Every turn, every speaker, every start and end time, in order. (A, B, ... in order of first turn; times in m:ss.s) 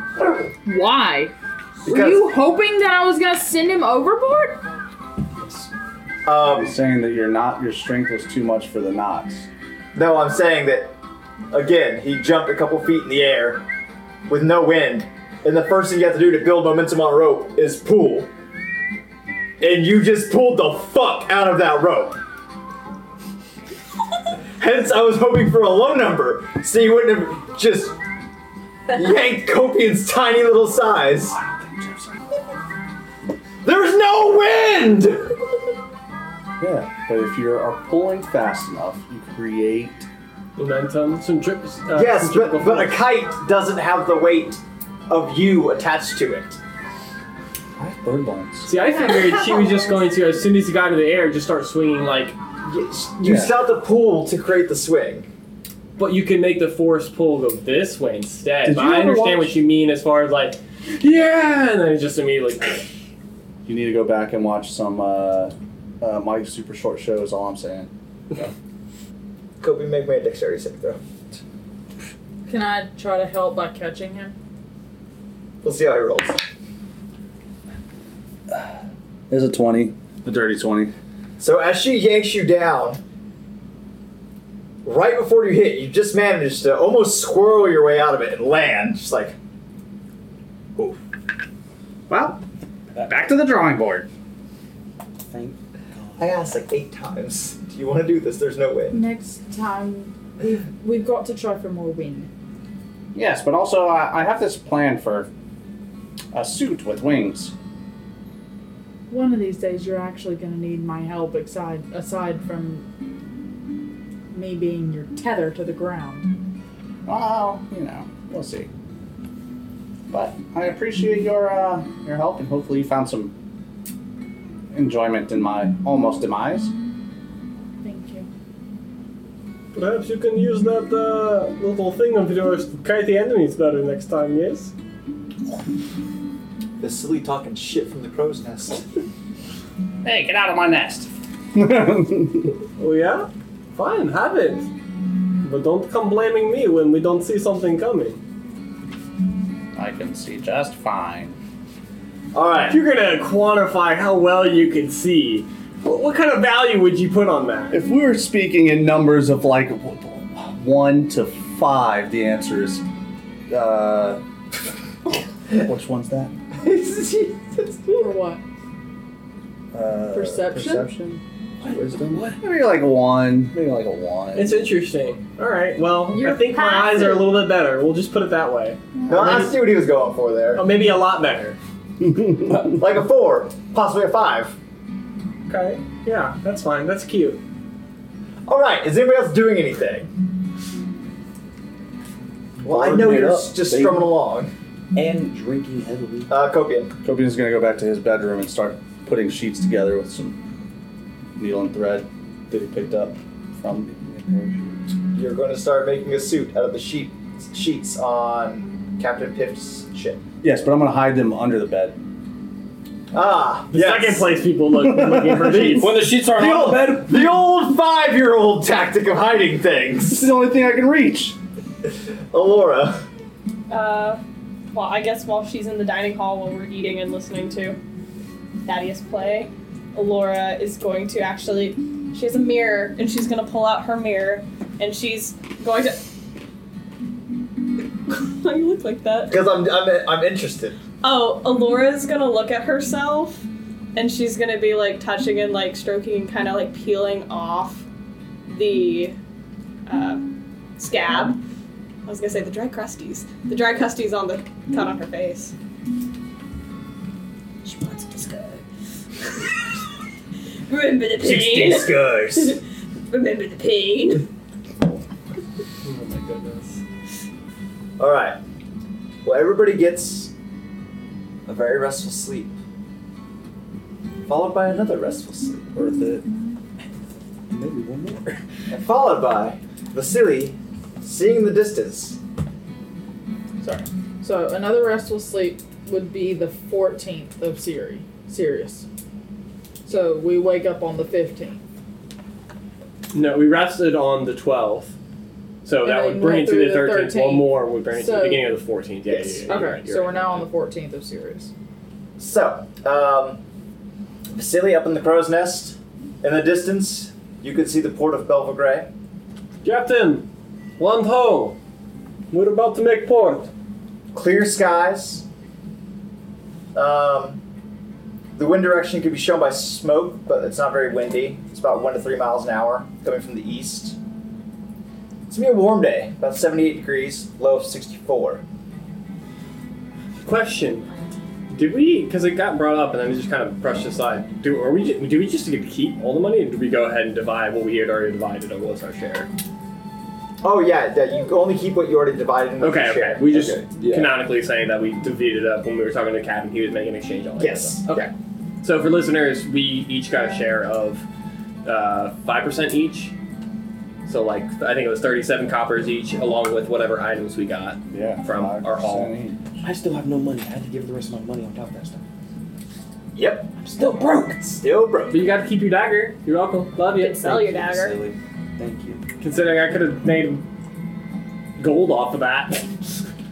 0:00.2-0:00.5 A
0:00.6-0:01.3 B
0:01.8-0:02.3 A
0:01.8-0:04.6 B
0:06.2-0:06.7 A
0:06.4-0:09.4 C
0:09.9-0:10.9 A
0:11.5-0:13.6 A
0:14.3-0:18.3 A
0:19.6-0:22.2 A
0:24.6-0:28.0 A
0:28.9-0:31.4 A
0:31.3-0:32.1 C
0:33.6-0:35.4 A
0:36.6-0:40.1 C
0:40.6-0:42.9 D
0:41.9-0:46.6 A
0:47.8-0:48.7 C
0:48.6-0:52.4 D
0:52.6-0:55.3 A
0:53.2-0:53.6 C
0:56.0-1:02.8 D
0:58.6-0:59.6 C
1:03.6-1:08.5 C
1:09.6-1:11.0 A
1:12.5-1:14.4 B
1:15.6-1:16.4 A
1:19.3-1:20.9 C
1:21.4-1:23.0 A
1:24.8-1:29.3 A
1:32.1-1:32.4 C
1:32.9-1:33.2 E
1:33.0-1:34.1 C
1:35.3-1:36.6 E
1:36.2-1:39.0 A
1:38.9-1:42.3 B
1:43.1-1:45.3 C
1:46.3-1:47.5 C
1:49.1-1:52.8 B
1:54.3-1:56.3 B
1:57.0-1:58.7 C
2:00.1-2:03.3 C
2:04.7-2:06.7 C
2:07.8-2:08.3 B
2:09.7-2:14.7 D
2:16.8-2:18.8 A
2:20.0-2:22.5 C
2:22.8-2:24.7 D
2:25.4-2:28.2 D
2:29.8-2:31.4 C
2:32.3-2:32.8 A
2:32.7-2:37.8 D
2:37.7-2:42.8 C
2:43.5-2:44.2 C
2:45.5-2:46.3 C
2:46.6-2:48.1 A
2:48.0-2:48.4 B
2:49.7-2:54.8 C
2:50.1-2:50.9 B
2:51.6-2:52.4 E
2:54.3-2:59.5 D
2:56.3-2:57.2 B
2:59.1-3:00.6 A
3:00.6-3:01.6 D
3:02.0-3:02.6 C
3:02.7-3:04.5 A
3:05.5-3:07.4 D
3:08.5-3:10.1 A
3:12.6-3:14.1 E
3:12.6-3:14.5 A
3:14.9-3:16.3 E
3:16.3-3:16.9 A
3:17.0-3:20.4 C
3:21.4-3:23.9 C
3:23.8-3:24.9 E
3:25.1-3:30.2 A
3:30.4-3:32.0 C
3:33.1-3:34.4 A
3:33.7-3:36.0 D
3:34.7-3:35.8 C
3:35.6-3:37.3 E
3:35.8-3:40.3 A
3:40.1-3:41.4 C
3:42.3-3:43.0 A
3:43.7-3:44.2 F
3:44.7-3:47.8 F
3:48.6-3:56.0 F
3:58.1-3:59.3 F
3:59.3-4:00.8 A
4:01.0-4:07.8 F
4:08.5-4:09.2 F
4:09.9-4:10.2 F
4:10.8-4:11.4 F
4:12.0-4:15.5 F
4:17.6-4:18.6 F
4:20.7-4:24.3 F
4:21.2-4:22.6 A
4:25.8-4:26.8 D
4:28.0-4:28.4 A
4:29.2-4:30.3 A
4:31.4-4:32.5 A
4:34.3-4:36.1 A
4:37.5-4:38.4 E
4:38.7-4:42.2 A
4:43.6-4:48.8 B
4:49.8-4:51.6 B
4:53.1-4:54.9 D
4:55.6-5:00.4 D
4:55.8-4:58.5 B
4:59.1-4:59.7 A
4:59.5-5:01.5 B
5:02.2-5:03.4 A
5:04.3-5:08.9 A
5:09.6-5:10.3 D
5:10.8-5:11.6 D
5:12.3-5:13.5 D
5:14.1-5:15.2 A
5:16.7-5:17.4 A
5:18.4-5:24.0 A
5:25.3-5:28.4 A
5:30.2-5:30.9 D
5:31.5-5:39.3 D
5:40.4-5:43.4 A
5:42.6-5:48.1 D
5:43.3-5:44.2 E
5:47.4-5:48.1 A
5:48.6-5:51.0 D
5:51.6-5:53.1 D
5:54.0-5:59.1 D
5:57.9-5:59.4 C
5:59.6-6:02.0 E
6:03.1-6:03.5 A
6:03.6-6:04.6 E
6:04.5-6:05.3 A
6:05.1-6:07.3 D
6:06.9-6:08.0 F
6:07.2-6:09.0 E
6:09.2-6:10.4 D
6:11.6-6:12.7 D